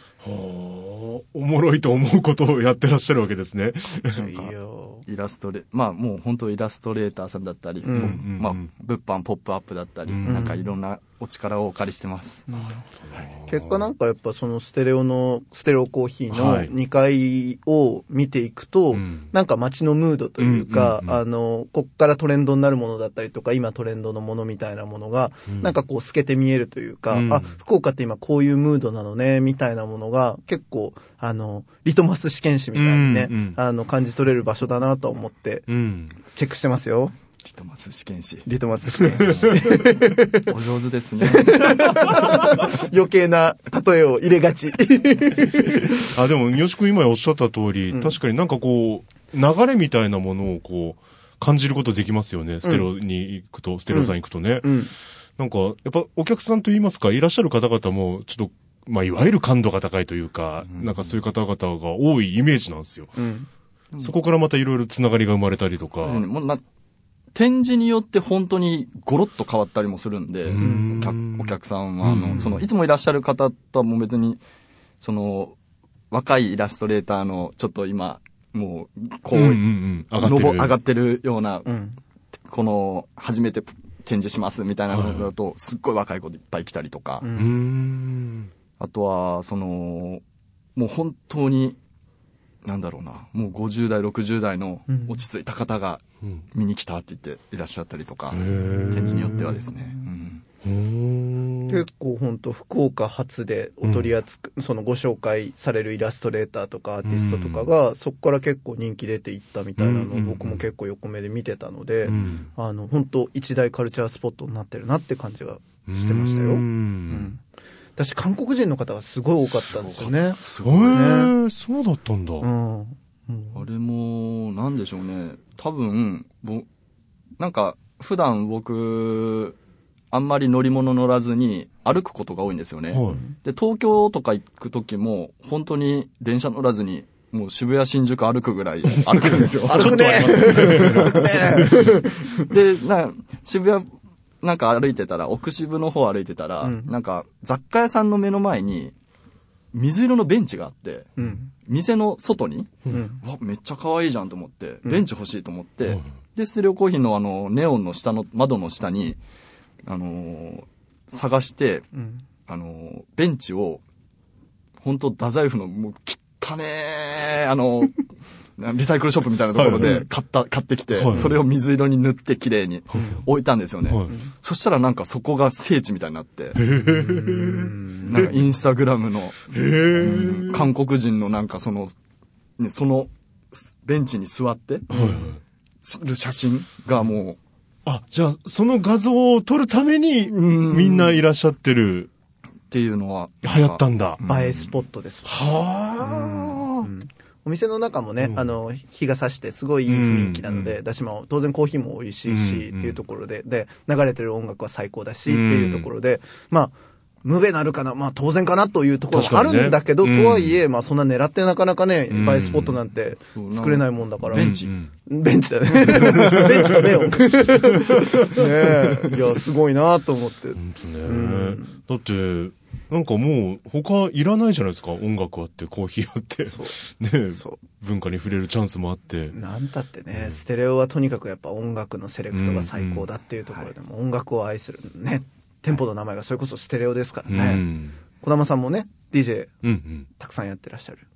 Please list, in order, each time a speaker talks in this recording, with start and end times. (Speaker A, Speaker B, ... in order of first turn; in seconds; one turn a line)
Speaker A: 0.2-4.5
Speaker B: 4.1-5.0
Speaker C: 5.0-12.6
Speaker B: 7.8-8.2
Speaker A: 7.9-8.7
Speaker A: 10.1-10.5
Speaker B: 10.2-10.6
Speaker B: 12.5-12.8
Speaker A: 13.1-13.9
Speaker B: 13.5-35.8
Speaker A: 16.3-16.7
Speaker A: 18.9-19.3
Speaker A: 20.4-21.2
Speaker A: 27.1-27.5
Speaker A: 32.7-33.6
Speaker A: 35.7-36.1
Speaker B: 36.3-37.1
Speaker C: 37.4-38.5
Speaker B: 38.5-40.5
Speaker C: 39.0-39.5
Speaker A: 39.2-39.5
Speaker C: 40.5-41.9
Speaker B: 41.2-46.0
Speaker A: 46.0-54.7
Speaker B: 47.9-48.2
Speaker B: 52.6-52.9
Speaker B: 53.9-54.9
Speaker A: 55.4-63.1
Speaker C: 60.6-61.1
Speaker B: 63.2-63.5
Speaker A: 64.0-66.2
Speaker C: 66.0-66.6
Speaker C: 67.3-74.4
Speaker A: 70.5-72.7
Speaker B: 70.6-71.1
Speaker C: 75.0-75.5
Speaker C: 76.1-81.7
Speaker A: 79.3-80.8
Speaker B: 81.6-82.0
Speaker C: 82.5-87.2
Speaker A: 84.9-85.3
Speaker B: 87.2-87.6
Speaker A: 87.3-88.5
Speaker C: 88.8-90.2
Speaker C: 90.8-91.8
Speaker C: 92.6-96.0
Speaker B: 94.9-95.2
Speaker C: 96.5-100.4
Speaker A: 98.3-99.7
Speaker B: 98.6-100.0
Speaker A: 100.6-101.8
Speaker B: 101.7-117.4
Speaker A: 103.8-104.1
Speaker A: 107.0-107.7
Speaker A: 109.8-110.7
Speaker A: 112.0-112.5
Speaker A: 115.9-117.3
Speaker B: 118.0-121.3
Speaker C: 119.5-121.1
Speaker A: 120.6-122.5
Speaker B: 122.4-123.6
Speaker C: 123.5-126.7
Speaker C: 127.4-129.6
Speaker C: 130.1-141.1
Speaker A: 132.9-133.2
Speaker A: 139.0-142.0
Speaker B: 139.6-142.5
Speaker C: 142.4-143.8
Speaker C: 144.4-148.9
Speaker B: 146.6-146.9
Speaker C: 149.7-159.2
Speaker B: 151.2-151.5
Speaker B: 152.9-153.2
Speaker C: 159.8-161.9
Speaker B: 161.9-162.2
Speaker C: 162.5-163.8
Speaker C: 164.8-168.0
Speaker C: 168.6-176.6
Speaker A: 169.5-170.0
Speaker A: 170.9-171.3
Speaker B: 172.9-173.2
Speaker A: 176.6-178.3
Speaker B: 176.8-178.2
Speaker C: 178.0-181.9
Speaker A: 179.5-180.7
Speaker C: 182.6-184.9
Speaker A: 184.9-185.4
Speaker B: 184.9-185.2
Speaker C: 185.8-187.4
Speaker A: 187.8-192.1
Speaker C: 190.2-191.2
Speaker C: 192.7-194.7
Speaker A: 193.4-194.2
Speaker B: 194.2-195.4
Speaker A: 195.2-196.9
Speaker B: 196.0-214.5
Speaker A: 198.2-198.5
Speaker A: 199.9-200.8
Speaker A: 202.3-203.0
Speaker A: 205.2-205.9
Speaker A: 209.1-210.6
Speaker A: 212.1-212.8
Speaker C: 213.3-214.7
Speaker A: 214.3-214.9
Speaker B: 215.1-221.8
Speaker A: 215.8-217.6
Speaker C: 216.0-216.4
Speaker A: 218.1-219.2
Speaker A: 220.6-229.3
Speaker B: 226.4-226.7
Speaker B: 227.3-227.6
Speaker B: 229.3-239.5
Speaker A: 230.1-230.4
Speaker A: 232.3-233.1
Speaker A: 237.3-238.0
Speaker A: 239.6-240.1
Speaker B: 240.2-241.0